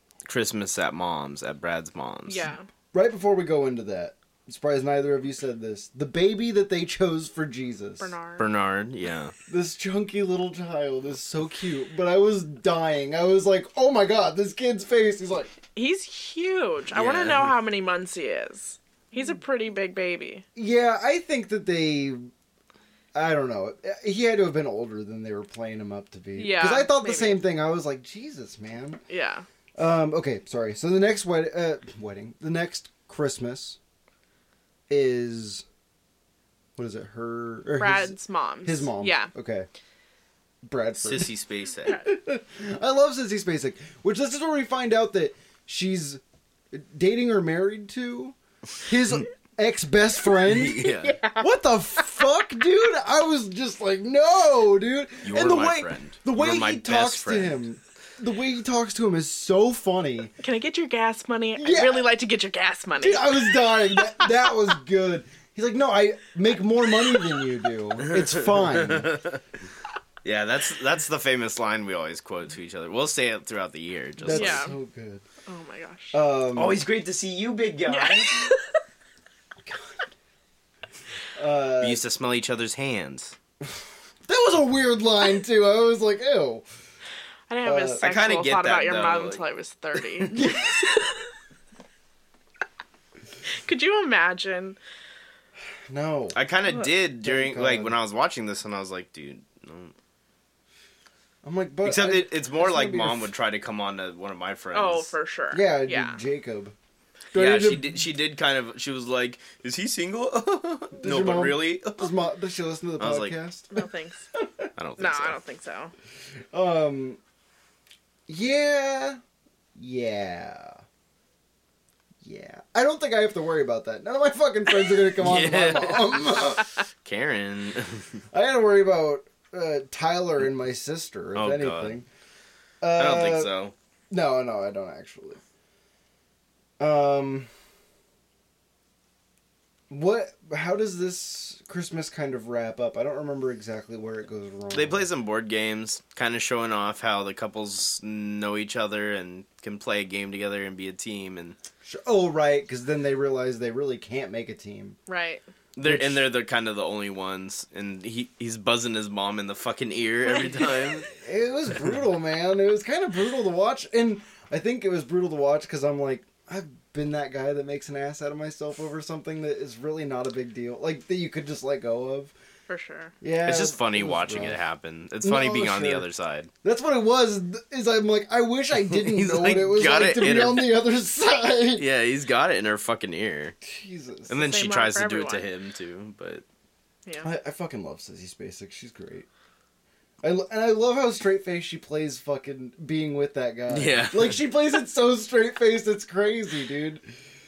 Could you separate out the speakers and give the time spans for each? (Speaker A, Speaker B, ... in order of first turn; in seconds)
Speaker A: 0.2-2.5, 8.4-9.3, 16.9-17.5, 41.0-42.0, 50.4-51.2, 55.2-57.6, 68.0-69.4, 70.2-74.7, 76.5-78.5, 81.8-83.4, 88.0-89.4, 90.3-90.6, 96.3-99.9, 101.8-105.1, 107.3-112.1, 113.0-113.4, 114.8-115.4, 125.1-128.2, 131.4-132.0, 132.9-133.7, 144.7-151.6, 155.8-161.1, 173.4-176.5, 178.8-180.8, 181.7-183.6, 184.3-186.4, 193.7-194.4
Speaker B: 2.3-2.6, 8.0-8.4, 15.8-20.4, 26.4-27.4, 29.1-29.4, 37.8-39.3, 60.4-64.5, 74.3-74.7, 75.5-76.2, 77.9-78.6, 87.5-91.2, 93.5-94.8, 104.7-106.2, 113.7-114.3, 115.0-115.9, 155.1-155.4, 172.7-173.1, 184.4-185.5
Speaker C: 2.9-8.1, 9.5-15.5, 20.6-22.3, 23.1-29.0, 29.8-33.8, 34.9-35.6, 36.8-39.7, 40.6-41.3, 41.9-60.3, 61.6-62.1, 63.0-69.1, 74.2-75.2, 76.1-76.8, 79.6-80.1, 81.3-82.0, 84.2-86.6, 87.6-88.0, 95.9-96.4, 97.2-98.0, 101.4-103.3, 105.5-106.7, 107.3-108.0, 111.0-113.8, 114.4-114.7, 116.5-117.2, 118.3-119.2, 119.8-120.8, 122.2-126.7, 128.3-132.1, 132.8-133.5, 134.1-135.4, 136.8-137.5, 139.9-145.1, 151.8-155.0, 155.8-156.2, 161.1-172.3, 173.2-174.6, 175.2-176.1, 176.6-181.8, 183.6-184.4, 187.2-189.3, 190.2-197.0